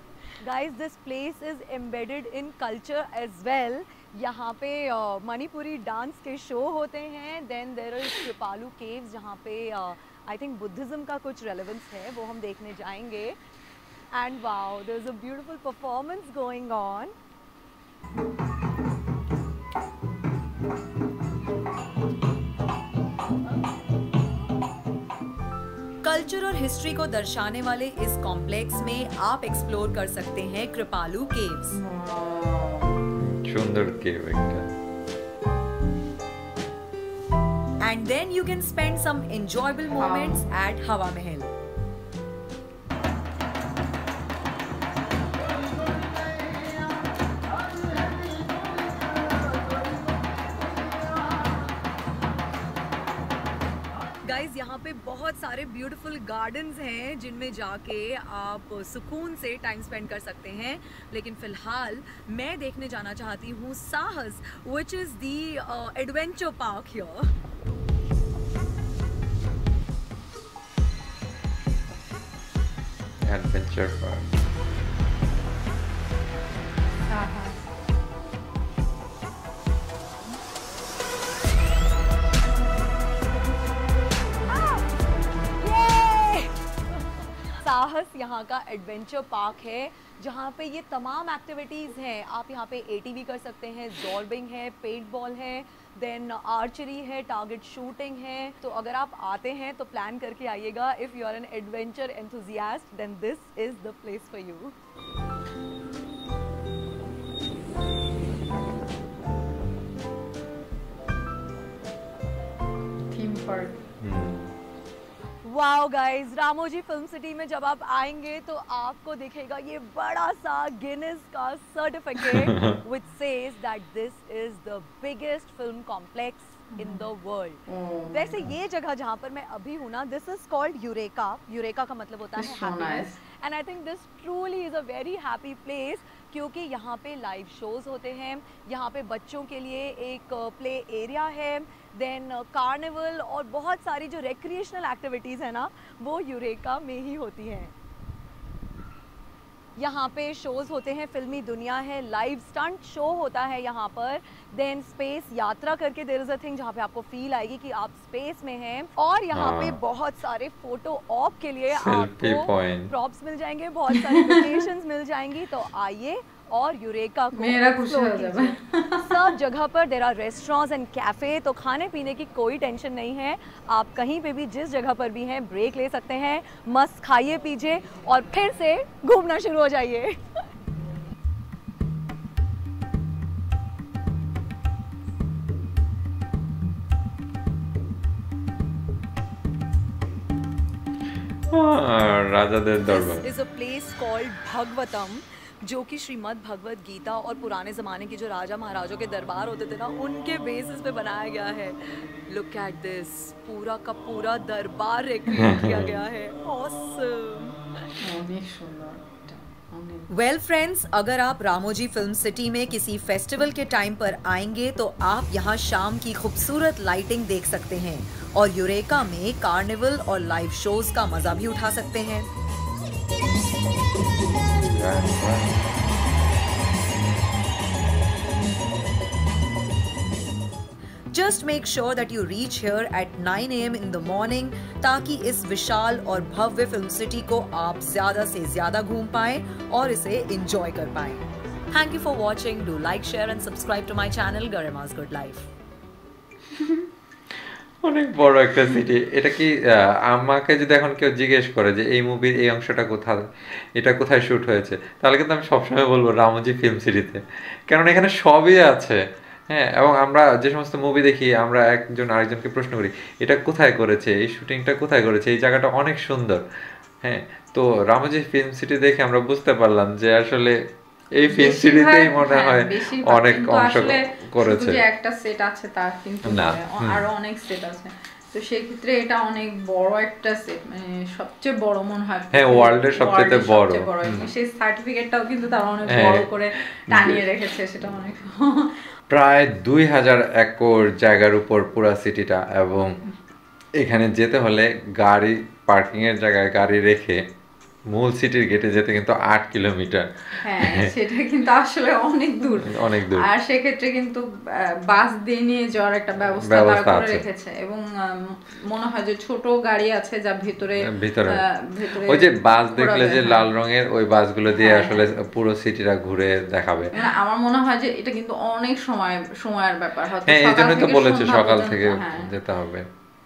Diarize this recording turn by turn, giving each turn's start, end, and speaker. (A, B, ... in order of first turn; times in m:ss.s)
0:00.4-0:13.4 A
0:14.1-0:17.1 A
0:26.0-0:31.8 A
0:31.8-0:32.9 B
0:33.2-0:34.7 C
0:37.8-0:41.5 A
0:40.0-0:40.5 B
0:54.2-1:07.3 A
1:13.2-1:14.3 C
1:17.1-1:17.6 B
1:24.5-1:24.8 A
1:25.6-1:27.0 A
1:27.6-1:44.7 A
1:53.1-1:53.8 B
1:54.0-1:54.5 C
1:55.4-2:27.7 A
2:02.3-2:02.8 C
2:06.8-2:07.0 B
2:07.7-2:08.5 B
2:12.4-2:13.2 B
2:29.8-3:00.2 A
2:39.3-2:39.8 C
2:41.7-2:42.9 C
2:44.0-2:44.4 B
2:47.4-2:49.2 B
3:11.5-3:13.2 C
3:12.8-3:27.6 A
3:25.3-3:26.0 C
3:28.0-3:30.1 B
3:30.1-3:42.3 A
3:44.4-3:45.8 C
3:51.1-4:05.5 A
4:07.3-4:26.4 C
4:27.0-4:30.6 C
4:31.2-4:34.8 C
4:31.2-4:48.8 B
4:36.3-4:37.0 C
4:42.3-4:44.3 C
4:45.9-4:46.3 C
4:46.9-4:47.2 C
4:49.1-4:53.0 C
4:53.8-4:57.2 C
4:57.9-5:00.9 C
5:00.4-5:13.5 B
5:02.6-5:03.3 C
5:06.4-5:07.2 C
5:10.9-5:11.4 C
5:12.0-5:16.9 C
5:14.5-5:15.0 B
5:17.0-5:22.3 B
5:20.3-5:22.9 C